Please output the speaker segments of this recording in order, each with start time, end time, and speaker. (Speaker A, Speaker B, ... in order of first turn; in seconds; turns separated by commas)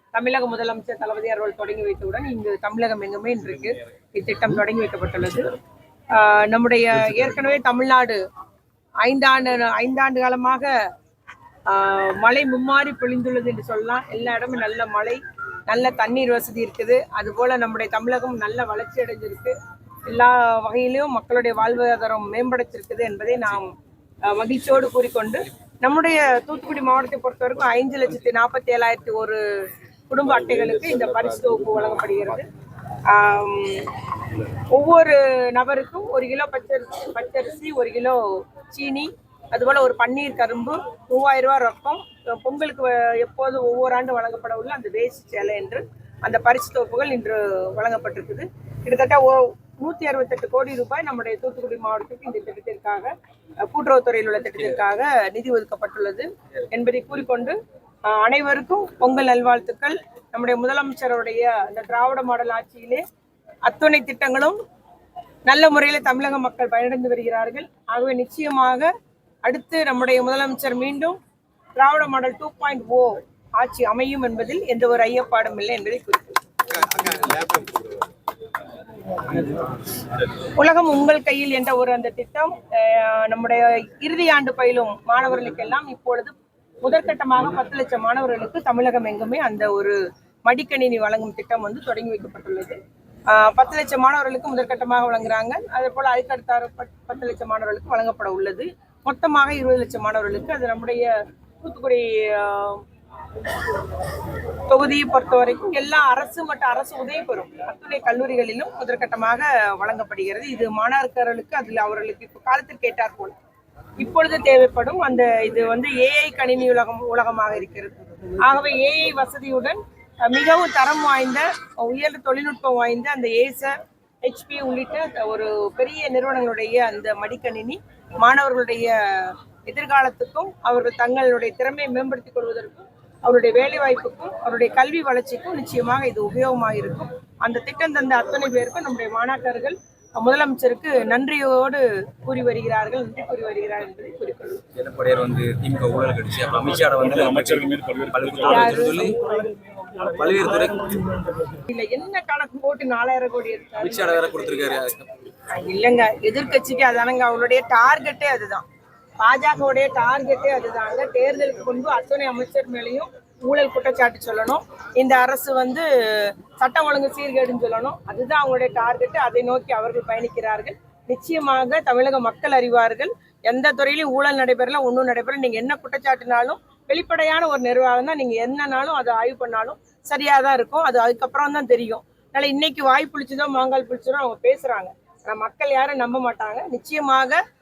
Speaker A: 0.1-5.5, Speaker A: 6.1-8.2, Speaker A: 9.0-10.7, Speaker A: 11.7-19.5, Speaker A: 20.1-23.7, Speaker A: 24.2-29.4, Speaker A: 30.1-32.5, Speaker A: 33.0-33.9, Speaker A: 34.6-38.2, Speaker A: 38.7-63.0, Speaker A: 63.6-64.6, Speaker A: 65.5-68.9, Speaker A: 69.4-71.2, Speaker A: 71.8-76.3, Speaker B: 76.9-77.8, Speaker A: 80.5-92.8, Speaker A: 93.3-102.8, Speaker A: 104.7-113.3, Speaker A: 114.0-144.6, Speaker B: 144.7-149.3, Speaker A: 148.5-149.1, Speaker B: 149.9-151.2, Speaker A: 151.7-154.5, Speaker B: 153.8-155.1, Speaker A: 155.5-158.6, Speaker A: 159.2-187.4